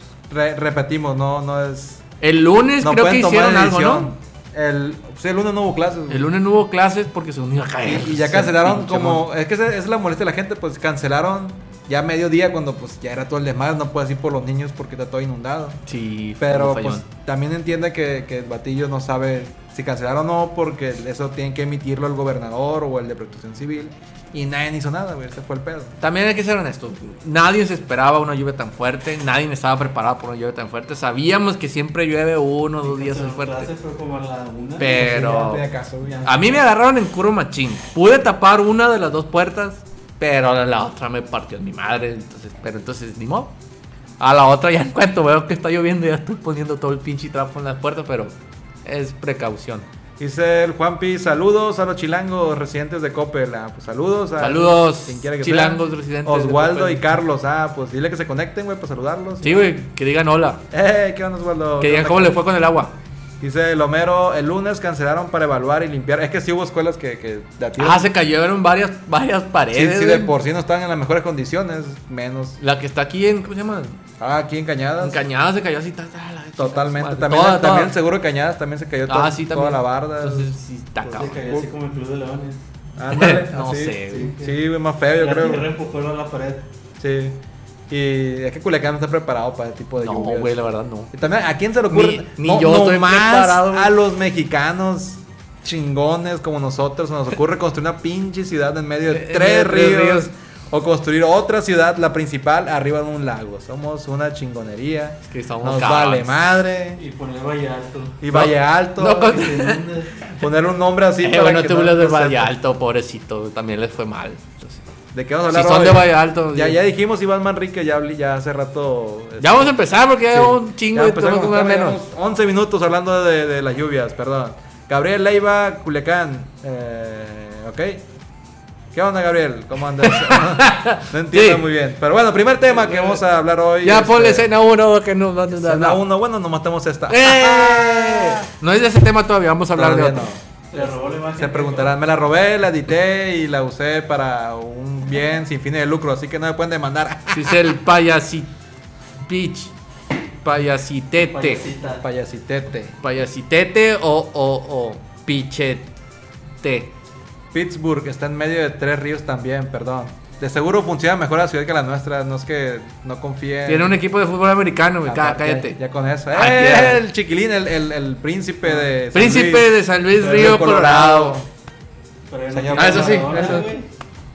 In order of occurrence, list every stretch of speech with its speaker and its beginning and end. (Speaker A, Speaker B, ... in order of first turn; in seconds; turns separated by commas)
Speaker A: 0.3-2.0, Speaker B: 2.2-4.1, Speaker A: 2.8-6.3, Speaker B: 6.1-9.2, Speaker A: 7.8-15.8, Speaker B: 15.9-17.0, Speaker A: 16.4-25.9, Speaker B: 26.0-33.7, Speaker C: 32.8-36.6, Speaker B: 34.8-35.6, Speaker A: 34.8-36.3, Speaker B: 36.2-43.5, Speaker B: 44.2-49.9, Speaker A: 50.2-59.7, Speaker B: 54.4-57.0, Speaker B: 59.4-60.6, Speaker A: 60.7-62.4, Speaker B: 61.8-62.9, Speaker A: 63.4-68.1, Speaker B: 67.8-70.3, Speaker A: 69.7-72.6, Speaker B: 72.6-74.0, Speaker A: 74.2-75.2, Speaker B: 75.0-77.9, Speaker A: 76.6-80.5, Speaker B: 79.1-81.5, Speaker C: 81.0-82.6, Speaker A: 83.0-85.7, Speaker B: 83.1-84.3, Speaker C: 84.1-84.6, Speaker C: 85.2-86.7, Speaker A: 87.0-90.5, Speaker B: 90.0-91.1, Speaker A: 91.1-107.0, Speaker B: 91.9-93.9, Speaker B: 99.1-100.3, Speaker B: 105.2-106.4, Speaker C: 107.0-108.2, Speaker A: 108.2-109.5, Speaker B: 108.3-109.8, Speaker C: 109.3-110.2, Speaker A: 110.4-112.5, Speaker B: 111.2-114.8, Speaker A: 115.1-128.0, Speaker B: 115.5-116.8, Speaker B: 119.4-122.0, Speaker A: 128.9-134.5, Speaker B: 130.0-131.7, Speaker C: 132.8-133.2, Speaker B: 133.8-136.0, Speaker A: 135.5-138.5, Speaker B: 137.1-140.3, Speaker A: 139.7-147.6, Speaker C: 140.7-141.9, Speaker B: 147.3-148.5, Speaker B: 149.2-149.7, Speaker B: 150.4-151.6, Speaker C: 151.2-152.0, Speaker A: 151.9-153.0, Speaker B: 153.0-155.9, Speaker B: 156.6-156.9, Speaker A: 157.5-164.0, Speaker B: 163.7-165.8, Speaker A: 165.0-171.5, Speaker B: 166.3-167.0, Speaker B: 169.1-171.4, Speaker C: 172.3-173.9, Speaker A: 172.5-173.7, Speaker B: 172.8-173.7